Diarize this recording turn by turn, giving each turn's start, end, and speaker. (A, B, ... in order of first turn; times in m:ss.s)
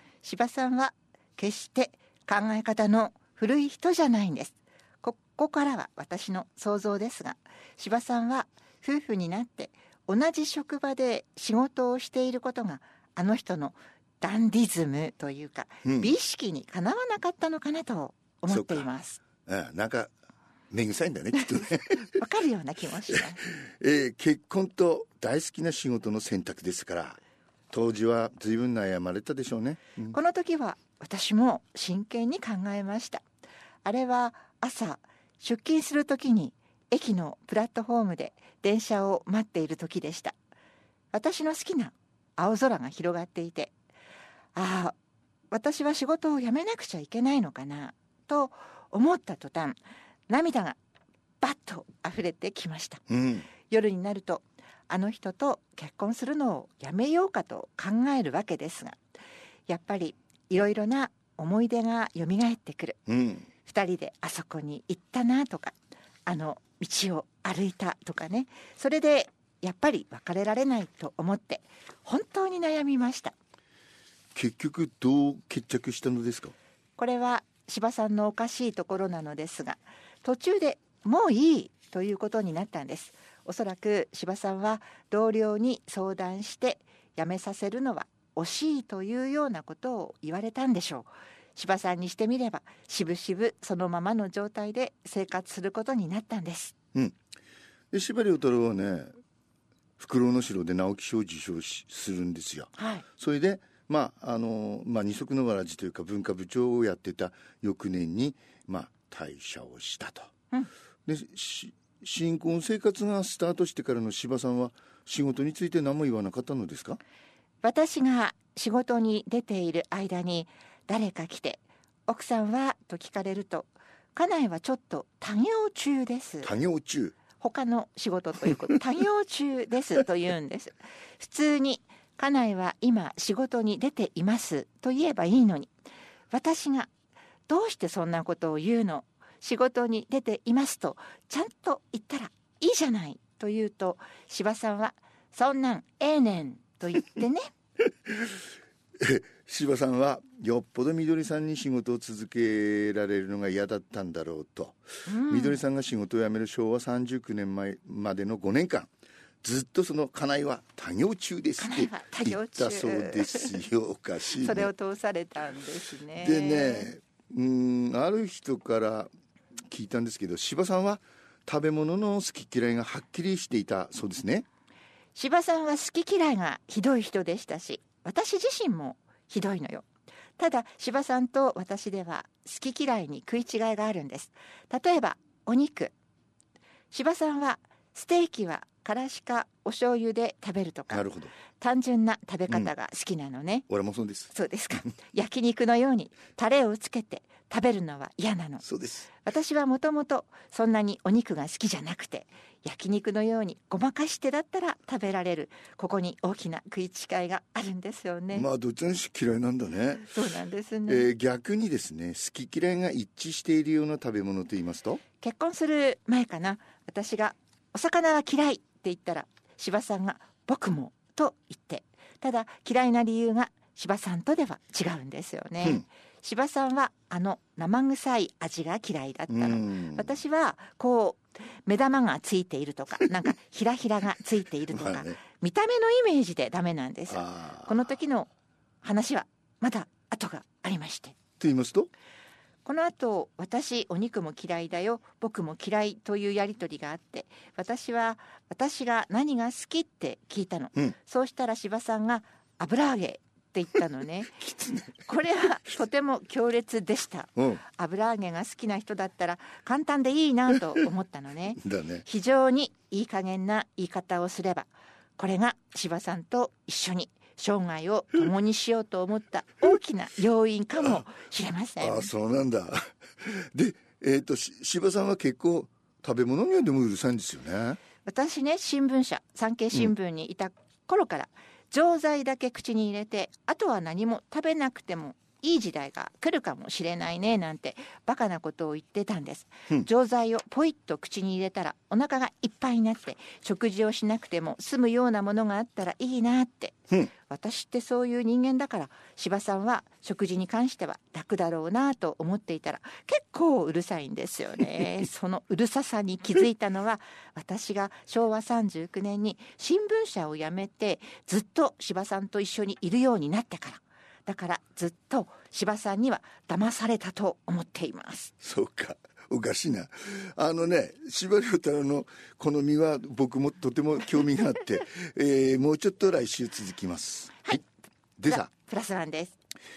0:00.2-0:19.2 A
0:15.8-0:16.1 B
0:18.5-0:18.9 B
0:19.4-0:20.1 B
0:20.7-0:22.2 B
0:22.0-0:23.4 A
0:23.1-0:27.2 B
0:27.7-0:30.2 B
0:30.1-0:33.2 A
0:33.8-0:40.4 A
0:41.1-0:43.7 A
0:44.5-0:45.0 A
0:45.5-0:49.8 A
0:50.3-0:50.8 A
0:51.4-0:59.0 A
0:53.1-0:53.5 B
0:59.7-1:03.0 A
1:03.1-1:03.5 B
1:03.6-1:13.3 A
1:14.3-1:16.5 B
1:17.0-1:36.7 A
1:37.9-1:39.1 B
1:40.0-1:50.3 B
1:42.8-1:43.0 A
1:51.1-1:57.0 B
1:57.6-2:06.5 A
2:06.4-2:07.2 B
2:07.4-2:15.7 A
2:16.3-2:16.9 A
2:17.5-2:27.5 A
2:29.0-2:38.9 B
2:35.1-2:35.6 A
2:39.4-2:44.7 B
2:41.6-2:43.6 A
2:44.3-2:46.9 A
2:46.1-2:49.1 B
2:49.7-2:54.4 B
2:55.1-2:59.9 A
3:00.4-3:05.9 A
3:06.9-3:11.0 A
3:10.9-3:11.4 B
3:11.6-3:13.6 A
3:13.7-3:14.3 B
3:14.3-3:18.6 A
3:18.6-3:19.1 B
3:19.2-3:28.4 A
3:28.3-3:35.0 B
3:30.1-3:31.1 A
3:35.2-3:58.3 A
3:49.3-3:50.1 B
3:54.7-3:55.2 B
3:57.1-3:57.8 B
3:58.8-4:01.2 A
4:01.4-4:01.9 B
4:02.6-4:14.4 A
4:14.4-4:15.1 B
4:15.0-4:32.1 A
4:17.4-4:17.6 B
4:21.6-4:22.0 B
4:31.8-4:37.8 B
4:38.0-5:18.3 A
5:18.4-5:27.6 B
5:28.2-5:28.5 B
5:28.3-5:29.4 A